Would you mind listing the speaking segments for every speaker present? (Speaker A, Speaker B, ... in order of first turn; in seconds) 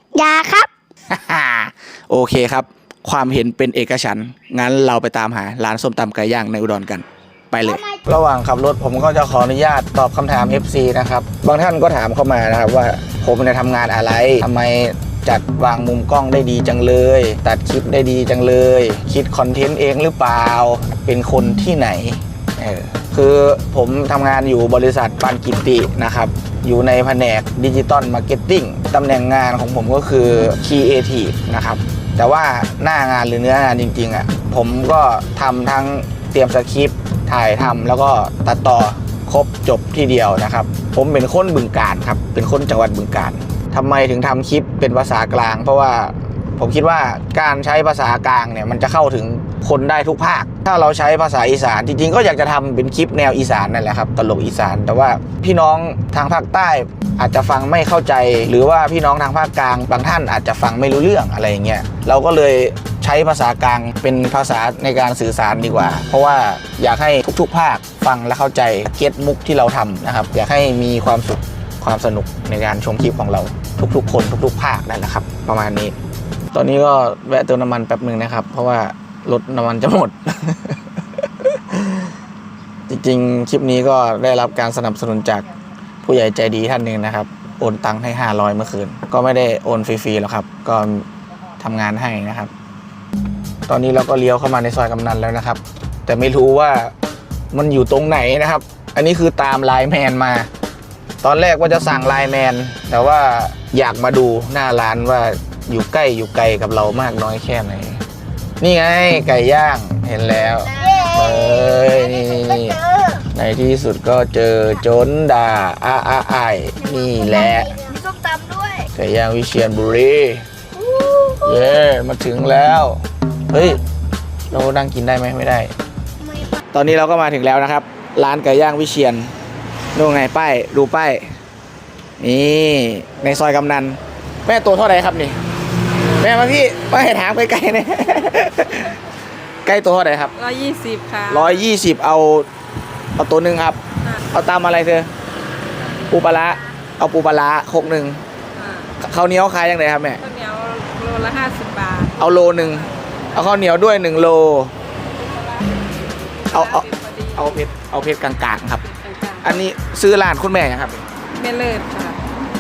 Speaker A: 0.1-0.7, 110.7-113.2, 116.8-118.9, 120.8-121.7, 126.2-126.6
Speaker B: 1.1-76.0, 76.5-80.8, 81.4-82.1, 82.9-85.5, 86.0-91.1, 91.6-92.5, 93.7-96.9, 97.5-100.5, 101.2-108.0, 108.6-117.8, 119.0-120.5, 121.4-123.8, 124.5-125.7, 126.7-129.3, 129.9-131.3, 132.2-135.4, 136.1-139.0, 139.7-140.3, 141.3-142.5, 143.2-143.8, 144.3-145.1, 146.1-148.2, 149.0-150.2, 152.2-154.7, 156.5-158.8, 159.4-161.1
Speaker C: 140.3-141.7, 145.8-146.1, 148.6-148.9, 150.2-153.4, 155.2-157.6, 158.8-159.6, 161.3-162.2